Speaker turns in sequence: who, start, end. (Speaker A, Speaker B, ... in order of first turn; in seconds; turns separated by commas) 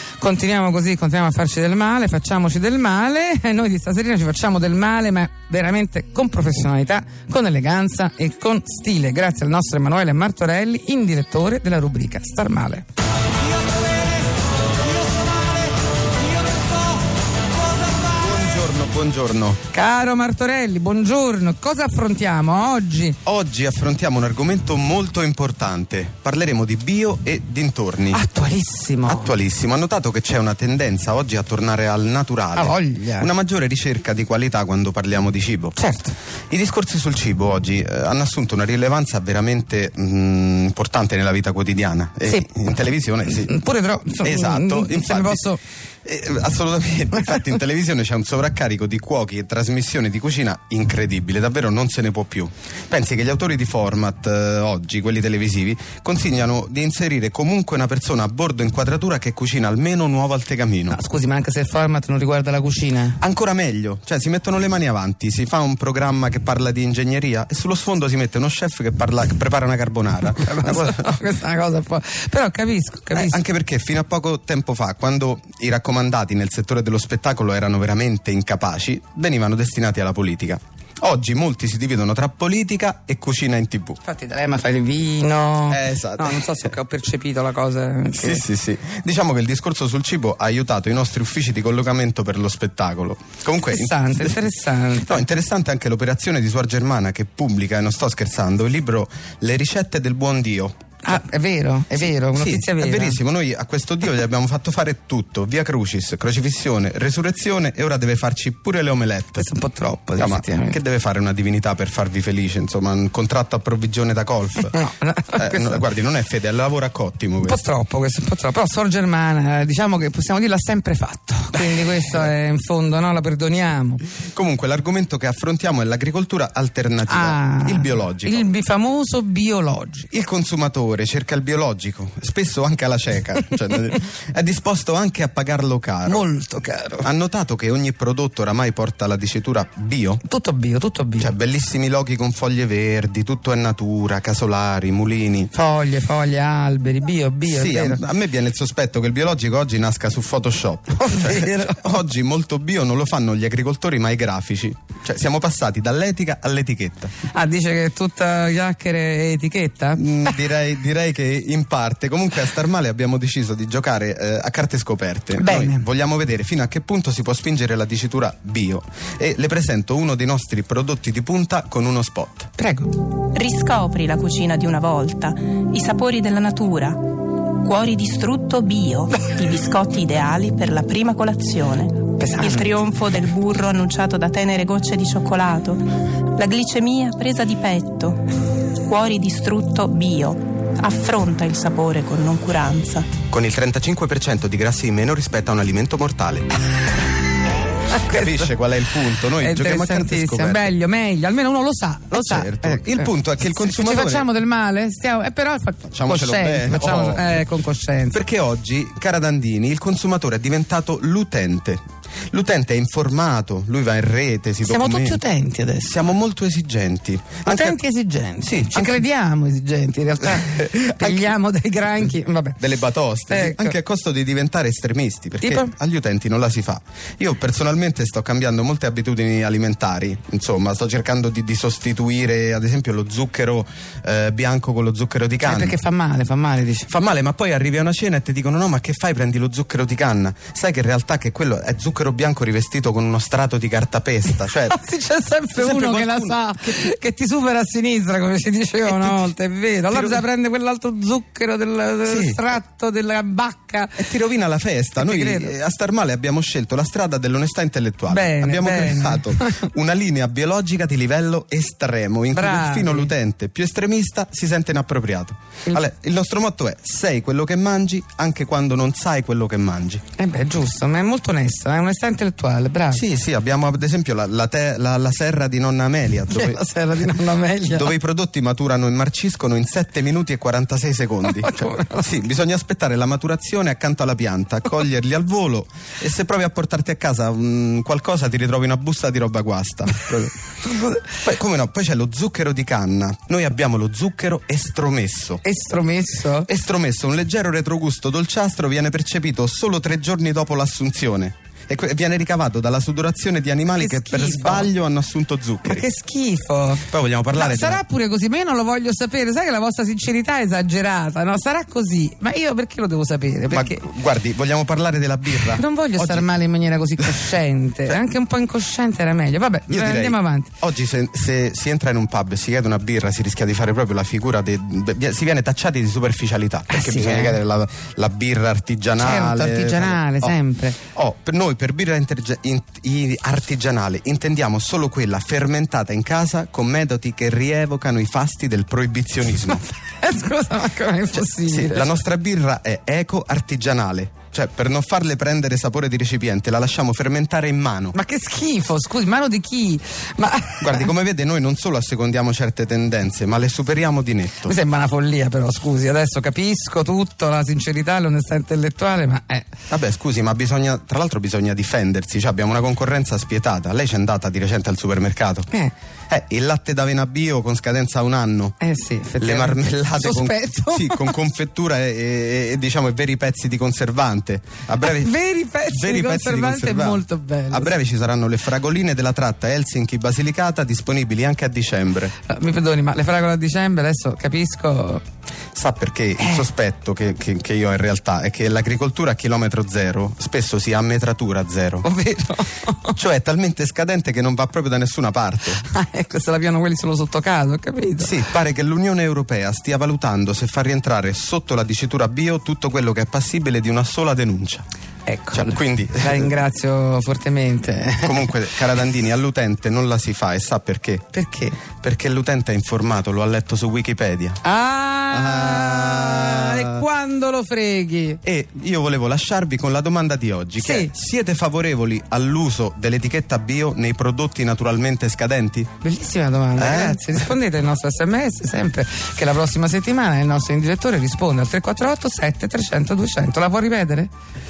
Speaker A: 0.2-12.8, Speaker B: 18.0-19.6, Speaker A: 19.7-23.2, Speaker B: 23.2-28.2, Speaker A: 28.1-29.3, Speaker B: 29.1-35.8, Speaker A: 32.5-33.3, Speaker A: 35.8-36.1, Speaker B: 36.5-43.5, Speaker A: 42.2-42.5, Speaker A: 43.2-45.6, Speaker B: 44.2-45.5, Speaker B: 46.0-61.0, Speaker A: 60.9-63.2, Speaker B: 63.2-71.2, Speaker A: 70.3-73.4, Speaker B: 73.1-84.0, Speaker A: 84.0-88.4, Speaker B: 85.7-86.7, Speaker B: 88.2-94.4, Speaker A: 93.7-95.2, Speaker B: 95.0-100.8, Speaker A: 101.0-103.2, Speaker B: 102.3-109.5, Speaker A: 109.4-110.8, Speaker B: 110.2-114.8, Speaker A: 114.7-115.8, Speaker B: 115.3-117.6, Speaker A: 117.4-124.0, Speaker B: 124.3-128.5, Speaker A: 127.1-130.1, Speaker B: 130.1-136.2, Speaker A: 136.1-137.1, Speaker B: 137.0-140.2, Speaker A: 140.2-141.3, Speaker B: 141.2-145.5, Speaker A: 145.5-148.0, Speaker B: 147.4-157.1, Speaker A: 151.0-151.9, Speaker A: 157.3-160.3, Speaker B: 159.9-172.5, Speaker A: 165.3-165.8, Speaker A: 172.6-172.9, Speaker C: 173.3-188.2, Speaker A: 182.2-182.7, Speaker C: 188.8-193.1, Speaker B: 193.3-196.5, Speaker A: 197.9-198.5, Speaker B: 198.0-200.7, Speaker A: 199.3-208.2, Speaker B: 202.1-204.3, Speaker B: 205.9-207.3, Speaker B: 208.1-215.2, Speaker A: 214.6-215.9, Speaker B: 215.8-217.8, Speaker A: 217.4-222.6, Speaker B: 218.4-219.0, Speaker B: 220.5-221.3, Speaker B: 222.6-235.8, Speaker A: 223.3-223.8, Speaker A: 225.4-225.7, Speaker A: 235.4-236.9, Speaker B: 236.9-244.8, Speaker A: 244.5-254.1, Speaker B: 245.6-246.8, Speaker B: 248.8-249.3, Speaker B: 249.9-250.2, Speaker B: 252.0-252.5, Speaker B: 254.0-270.0, Speaker A: 255.0-255.5, Speaker A: 258.1-259.6, Speaker A: 262.3-263.1, Speaker A: 270.2-273.0, Speaker B: 272.9-290.3, Speaker A: 276.3-277.9, Speaker A: 281.2-282.2, Speaker A: 290.6-291.0, Speaker B: 291.0-295.4, Speaker A: 295.4-296.5, Speaker B: 296.5-305.9, Speaker A: 303.8-304.7, Speaker A: 305.6-313.8, Speaker B: 306.9-307.8, Speaker B: 313.5-316.3, Speaker A: 315.4-320.5, Speaker B: 319.7-330.4, Speaker A: 326.7-327.4, Speaker A: 329.0-330.8, Speaker B: 330.9-339.6, Speaker A: 339.3-341.9, Speaker B: 341.1-347.9, Speaker A: 347.9-350.9, Speaker B: 350.6-354.6, Speaker A: 354.4-359.5, Speaker B: 359.7-365.5, Speaker B: 366.1-368.6, Speaker A: 368.6-371.1, Speaker B: 369.2-375.1, Speaker A: 374.8-377.7, Speaker B: 375.7-382.1, Speaker A: 382.3-385.0, Speaker B: 385.5-391.9, Speaker A: 386.2-386.5, Speaker A: 391.8-393.0, Speaker B: 392.9-395.6, Speaker A: 395.6-398.2, Speaker B: 398.0-404.6, Speaker A: 405.1-408.3, Speaker B: 405.3-406.4, Speaker B: 408.0-411.1, Speaker A: 411.1-411.6, Speaker B: 411.8-414.4, Speaker A: 414.4-418.2, Speaker B: 415.1-416.8, Speaker B: 418.2-425.7, Speaker A: 420.6-420.9, Speaker A: 425.8-434.1, Speaker B: 426.6-427.3